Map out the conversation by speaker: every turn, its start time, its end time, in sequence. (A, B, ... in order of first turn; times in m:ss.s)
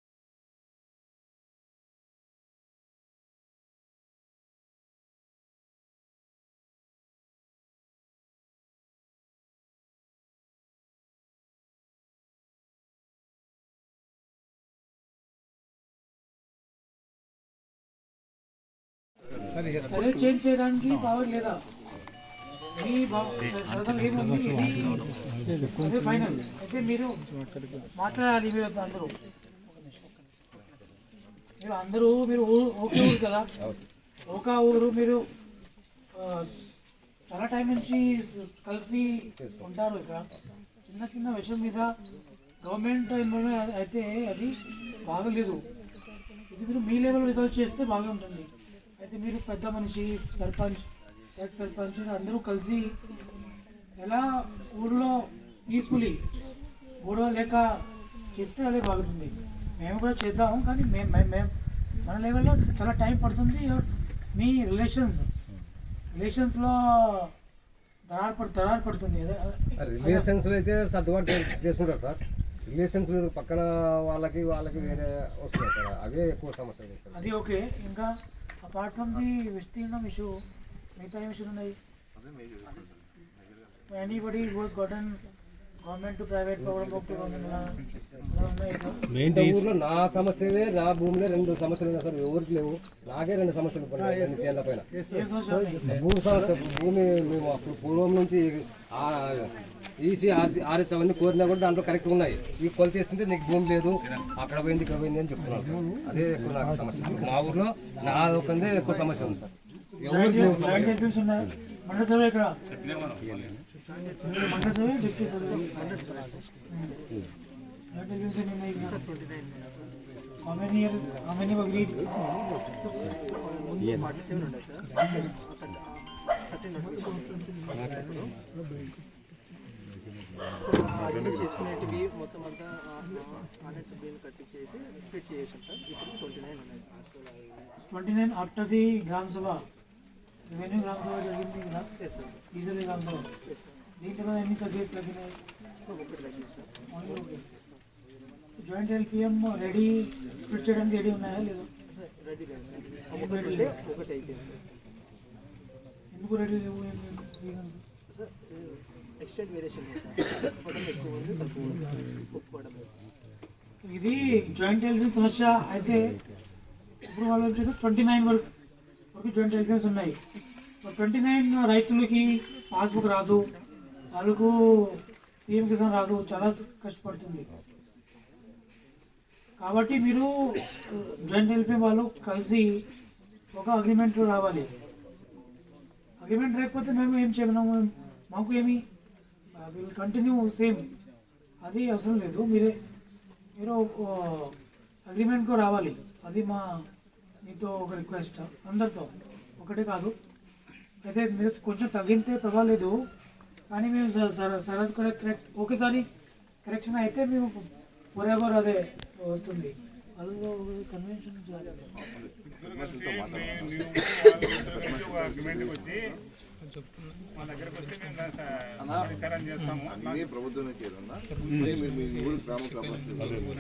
0:19.8-0:21.6 A
0:22.8-0:25.0 A
0:25.7-0:27.1 A
0:27.9-0:29.1 A
0:31.6-0:33.5 A
0:34.3-0:35.2 A
0:36.1-0:36.6 A
0:37.3-0:40.3 A
0:39.4-0:39.7 B
0:40.9-0:41.9 A
0:42.6-0:45.6 A
0:46.5-0:48.5 A
0:49.0-0:50.8 A
0:51.4-0:52.9 A
0:54.0-0:56.2 A
0:57.0-0:57.8 A
0:58.3-1:01.5 A
1:02.0-1:05.2 A
1:06.1-1:07.3 A
1:08.1-1:10.3 A
1:09.8-1:17.3 B
1:17.1-1:18.1 A
1:18.6-1:20.3 A
1:21.0-1:21.8 A
1:23.9-1:25.2 A
1:25.8-1:27.7 A
1:28.3-1:29.0 A
1:29.1-1:34.9 B
1:35.1-1:35.9 A
1:35.8-1:51.0 B
1:50.0-1:52.6 A
1:54.3-1:55.7 A
1:55.7-1:56.3 C
1:57.9-1:59.0 A
2:00.4-2:02.0 A
2:02.8-2:04.8 C
2:06.7-2:07.6 C
2:10.7-2:17.5 C
2:17.9-2:19.6 A
2:20.5-2:21.9 A
2:22.5-2:23.3 A
2:24.0-2:25.4 A
2:25.8-2:26.7 C
2:26.9-2:27.4 A
2:28.6-2:31.7 A
2:32.0-2:34.6 C
2:33.2-2:33.7 A
2:36.1-2:37.8 A
2:38.2-2:38.4 C
2:39.2-2:42.9 C
2:43.8-2:46.0 A
2:47.0-2:48.4 A
2:49.1-2:50.2 A
2:50.8-2:53.4 A
2:54.1-2:57.5 A
2:59.6-3:02.8 A
3:03.5-3:04.7 A
3:06.2-3:08.8 A
3:09.6-3:10.9 A
3:11.6-3:12.8 A
3:13.6-3:14.5 A
3:15.0-3:16.8 A
3:17.4-3:20.1 A
3:21.0-3:23.0 A
3:23.7-3:26.1 A
3:26.6-3:31.9 A
3:32.6-3:35.8 D
3:34.4-3:35.8 E
3:37.4-3:40.2 D
3:40.4-3:43.4 E